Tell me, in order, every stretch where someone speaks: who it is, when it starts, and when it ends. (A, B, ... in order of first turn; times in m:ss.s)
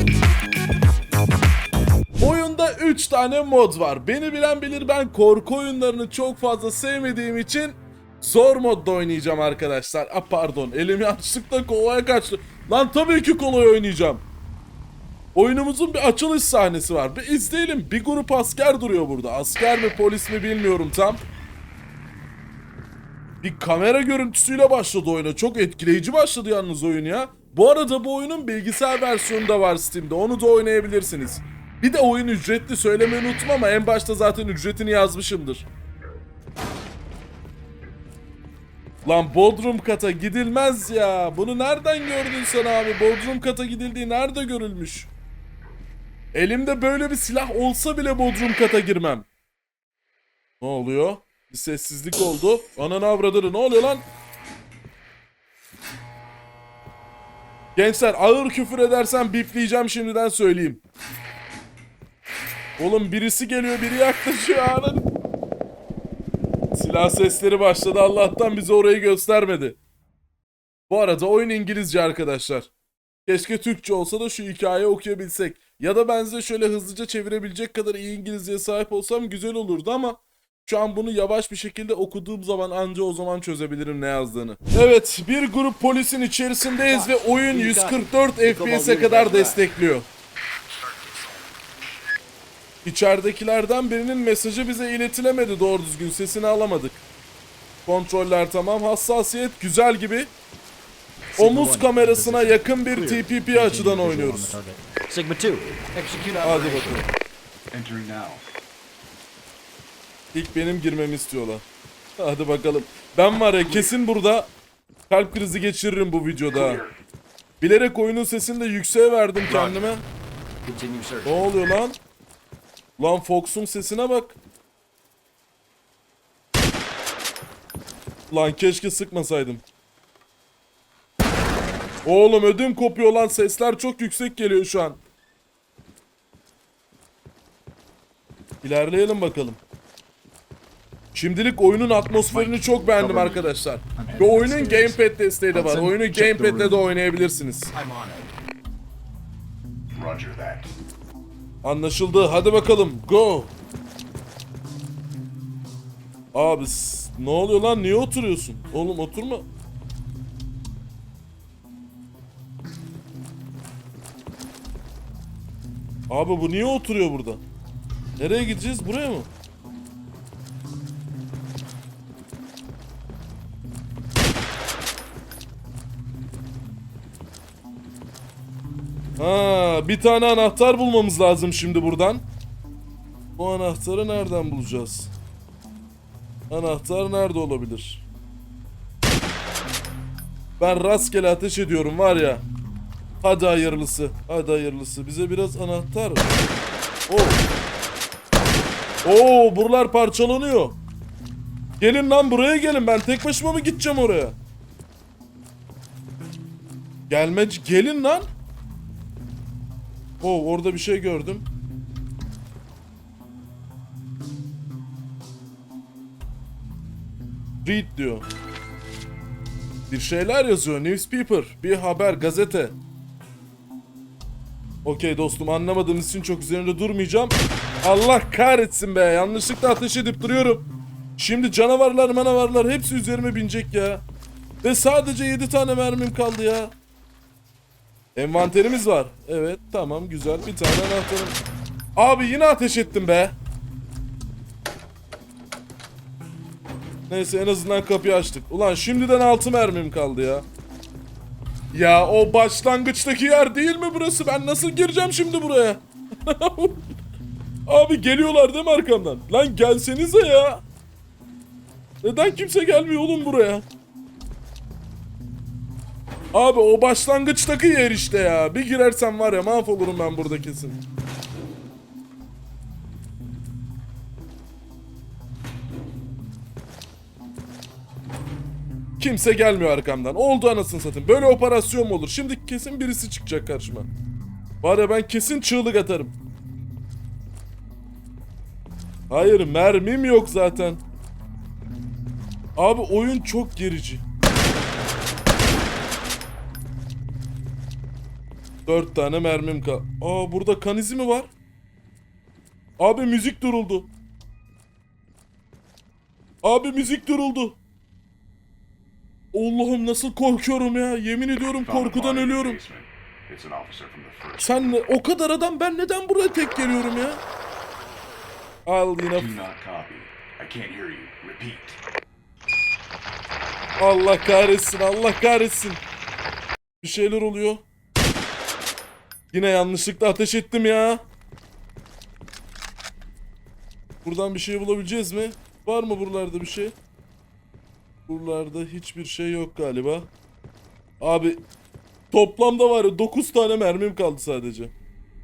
0:02.2-0:14.2 A
0:15.4-0:21.2 A
0:23.4-0:35.7 A
0:39.0-0:45.1 A
0:46.3-0:49.3 A
0:50.6-0:54.0 A
0:57.8-1:00.8 A
1:02.8-1:05.1 A
1:06.7-1:09.8 A
1:10.9-1:12.7 A
1:13.3-1:30.1 A
1:26.8-1:29.6 B
1:32.8-1:37.0 A
1:37.9-1:40.3 A
1:41.4-1:44.6 A
1:41.4-1:47.0 B
1:46.4-1:47.1 A
1:47.7-1:48.4 C
1:50.3-1:51.6 A
1:52.2-1:54.5 A
1:55.1-1:56.8 A
1:56.5-1:57.0 C
1:57.6-2:00.0 A
1:59.5-1:59.9 B
2:00.6-2:01.5 B
2:01.2-2:02.0 A
2:03.0-2:04.4 A
2:08.3-2:09.6 A
2:12.0-2:15.0 A
2:18.6-2:19.6 A
2:21.1-2:27.7 A
2:22.2-2:25.0 B
2:25.5-2:26.8 B
2:27.7-2:28.3 B
2:29.9-2:30.7 C
2:31.6-2:33.5 A
2:36.3-2:39.5 A
2:46.1-2:47.4 A
2:48.2-2:49.3 A
2:59.2-3:02.2 A
3:03.4-3:05.1 A
3:06.5-3:08.0 A
3:10.6-3:12.4 A
3:13.2-3:16.3 A
3:17.1-3:17.4 A
3:19.0-3:20.8 A
3:21.8-3:24.4 A
3:27.1-3:28.3 A
3:30.2-3:31.5 A
3:37.6-3:38.3 A
3:39.9-3:42.8 A
3:44.8-3:54.0 A
3:54.6-3:56.8 A
3:58.2-4:01.4 A
4:02.0-4:03.4 A
4:07.1-4:10.5 A
4:11.7-4:16.8 A
4:17.7-4:20.6 A
4:22.0-4:23.6 A
4:26.3-4:30.8 A
4:39.0-4:43.9 A
4:44.6-4:46.1 A
4:49.1-4:50.8 A
4:52.6-4:54.0 A
4:58.7-5:01.3 A
5:02.8-5:03.9 A
5:06.4-5:07.6 A
5:09.3-5:12.6 A
5:11.6-5:14.8 C
5:14.4-5:17.2 A
5:18.7-5:19.4 A
5:19.1-5:21.8 C
5:23.8-5:25.8 A
5:26.8-5:27.6 A
5:29.3-5:31.0 A
5:34.0-5:36.8 A
5:38.1-5:40.1 A
5:41.0-5:41.4 A
5:42.1-5:44.7 A